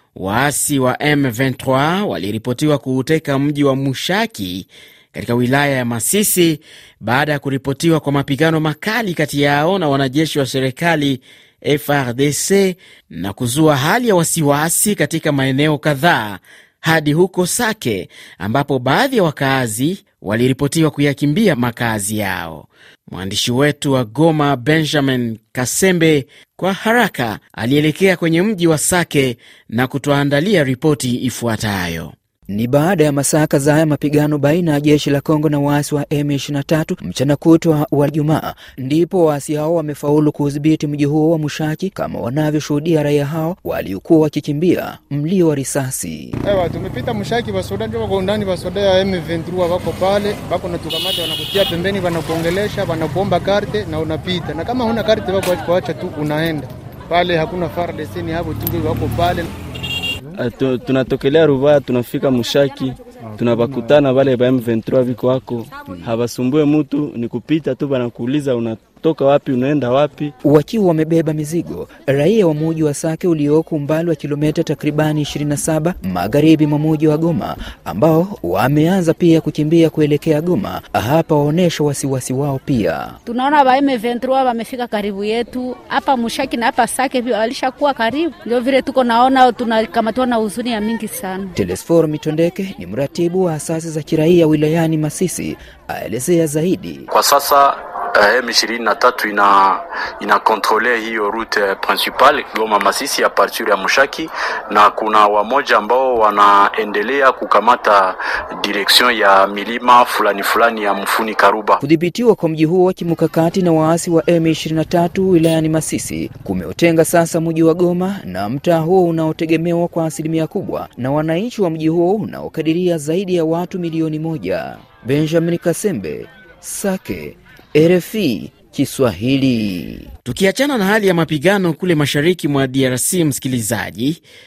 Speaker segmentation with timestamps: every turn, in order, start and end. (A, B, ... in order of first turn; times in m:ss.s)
0:00.2-0:32.1 A
0:32.5-0:46.3 B
0:46.4-0:59.4 C
1:00.3-1:10.3 D
1:10.4-1:23.2 B
1:23.2-1:31.5 E
1:31.6-1:37.0 B
1:37.1-1:51.8 F
1:51.8-2:10.1 B
2:10.2-2:14.2 A